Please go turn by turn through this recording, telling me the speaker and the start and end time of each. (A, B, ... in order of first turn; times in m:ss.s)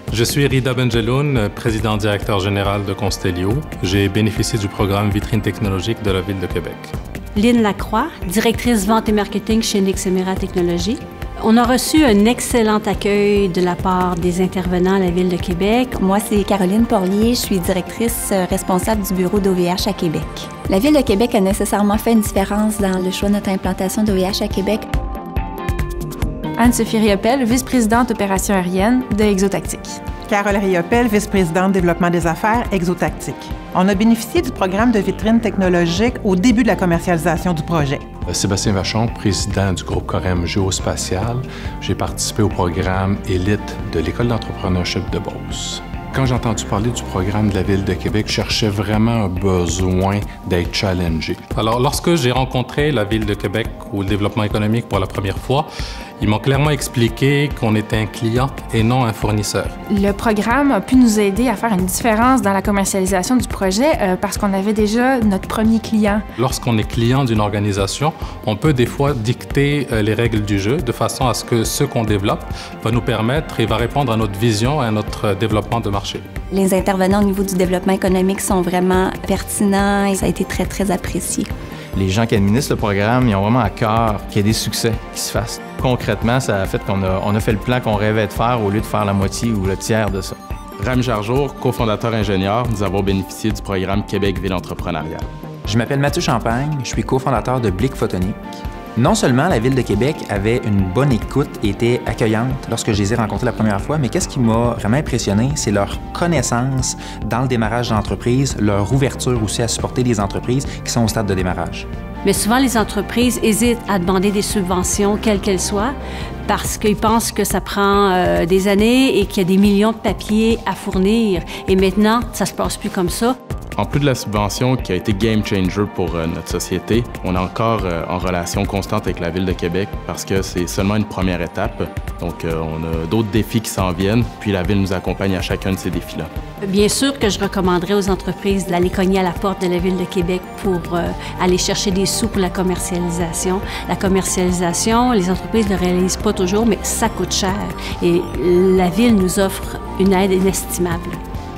0:00.1-0:06.9 A
0:07.3-0:16.0 B
0:16.0-0:24.9 C
0:26.6-0:30.0 D
0:30.3-0:38.0 E
0:38.2-0:51.4 F
0:51.5-0:55.7 A
0:56.2-0:59.7 A
0:59.9-1:06.2 D
1:06.4-1:16.2 A
1:16.5-1:21.5 C
1:21.9-1:30.4 G
1:30.8-1:35.3 H
1:35.6-1:51.9 I
1:52.2-1:55.9 B
1:56.4-2:03.4 B
2:03.8-2:16.3 H
2:16.6-2:31.2 B